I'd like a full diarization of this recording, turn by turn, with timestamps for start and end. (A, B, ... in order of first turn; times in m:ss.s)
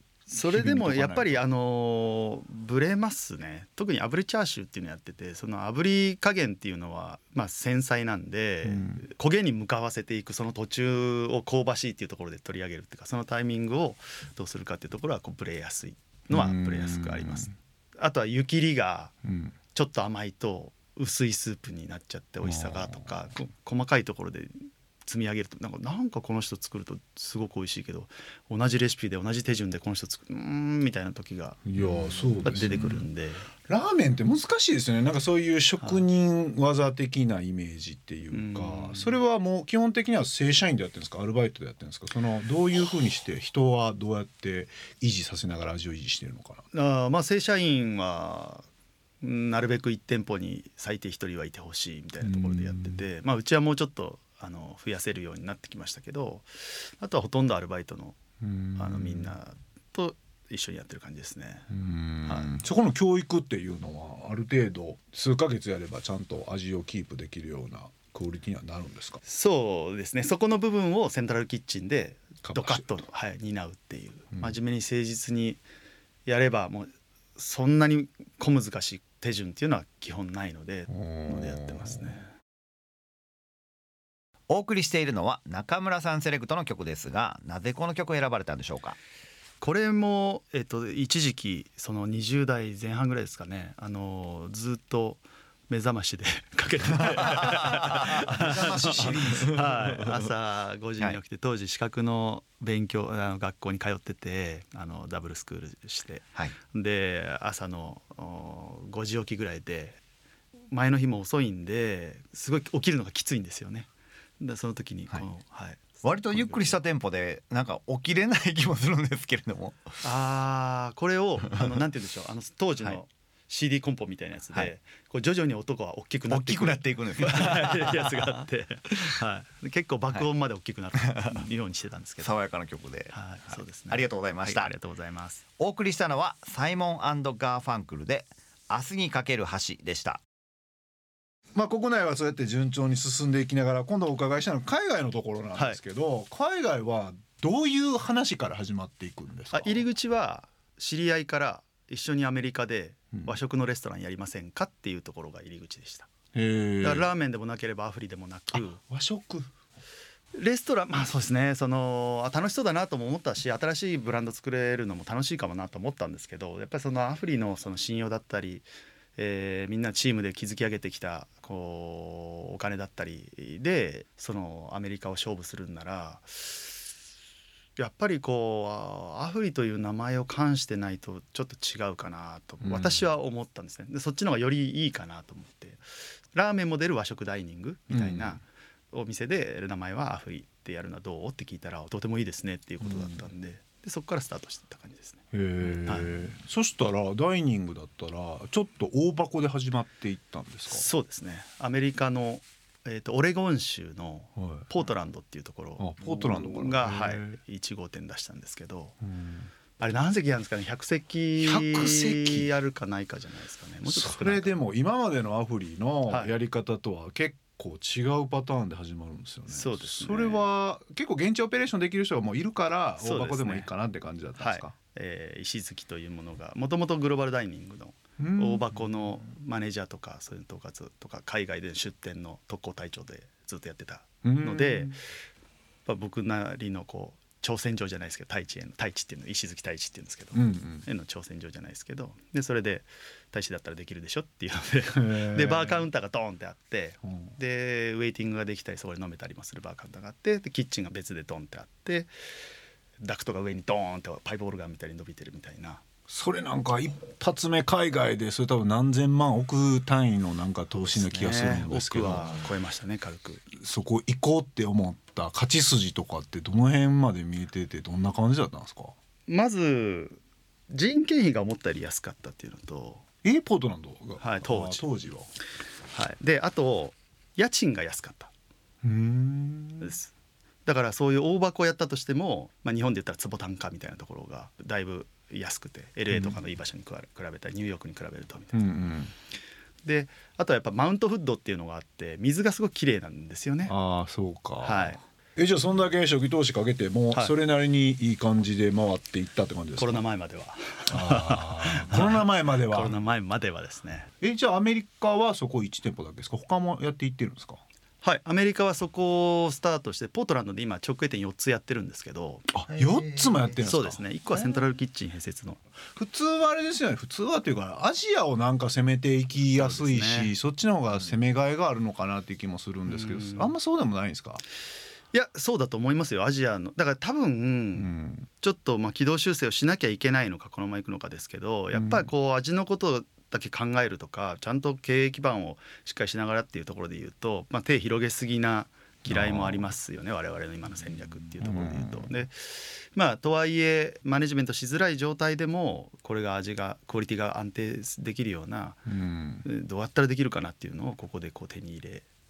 0:00.3-0:19.1 A
0:00.4-0:01.4 B
0:08.6-0:09.0 B
0:16.3-0:17.5 B
0:19.2-0:19.5 B
0:19.7-0:33.5 A
0:22.4-0:23.2 B
0:31.6-0:33.0 B
0:33.7-0:46.6 B
0:38.3-0:39.2 A
0:46.7-0:48.6 A
0:49.2-0:58.2 A
0:52.2-0:53.0 B
0:58.4-0:59.3 B
0:58.8-1:01.7 A
1:01.7-1:09.2 B
1:09.2-1:15.6 A
1:12.4-1:13.0 B
1:16.2-1:22.2 A
1:20.9-1:22.2 B
1:24.5-1:29.0 C
1:29.6-1:50.0 A
1:37.4-1:39.1 C
1:38.2-1:40.2 B
1:50.7-1:53.9 A
1:54.4-1:56.8 A
1:56.0-2:00.0 C
2:00.0-2:12.3 A
2:06.3-2:08.4 C
2:11.1-2:11.4 C
2:12.2-2:14.7 C
2:13.1-2:15.4 A
2:15.6-2:20.2 C
2:21.5-2:29.8 B
2:29.5-2:36.1 A
2:36.3-2:37.1 B
2:36.8-2:38.8 A
2:38.5-2:39.5 B
2:40.3-2:48.6 A
2:49.2-2:56.8 A
2:57.8-3:15.2 A
3:02.6-3:03.1 B
3:07.9-3:08.4 B
3:12.8-3:13.2 B
3:15.3-3:20.8 B
3:15.7-3:16.2 A
3:20.7-3:29.0 A
3:24.4-3:24.7 B
3:25.8-3:27.4 B
3:29.0-3:29.5 B
3:29.8-3:34.6 A
3:31.4-3:32.5 B
3:33.9-3:44.7 B
3:36.1-3:36.3 A
3:39.5-3:40.4 A
3:43.0-3:43.7 A
3:44.4-3:54.9 A
3:48.2-3:49.2 B
3:54.2-3:55.0 B
3:55.8-4:12.1 A
4:00.3-4:00.8 B
4:04.9-4:05.8 B
4:07.0-4:07.3 B
4:13.0-4:15.8 A
4:16.1-4:22.4 B
4:20.8-4:23.4 A
4:23.6-4:28.9 B
4:29.3-4:30.2 A
4:30.7-4:33.0 A
4:33.2-4:35.3 B
4:34.2-4:34.8 A
4:35.9-4:38.3 A
4:38.8-4:40.0 B
4:39.8-4:40.1 A
4:40.6-4:48.6 A
4:46.1-4:46.4 B
4:48.5-4:49.1 B
4:49.8-4:53.7 A
4:53.6-5:00.0 B
4:54.6-4:55.0 A
4:59.8-5:04.1 A
5:00.9-5:02.9 B
5:04.2-5:07.6 B
5:08.0-5:12.5 A
5:12.5-5:14.5 B
5:12.8-5:13.5 C
5:13.6-5:15.6 A
5:16.0-5:24.4 B
5:19.5-5:20.3 A
5:22.9-5:23.5 A
5:25.1-5:48.8 A
5:27.8-5:28.3 B
5:31.7-5:32.1 B
5:39.1-5:39.7 B
5:41.4-5:42.1 B
5:48.8-5:49.4 B
5:49.4-5:52.0 A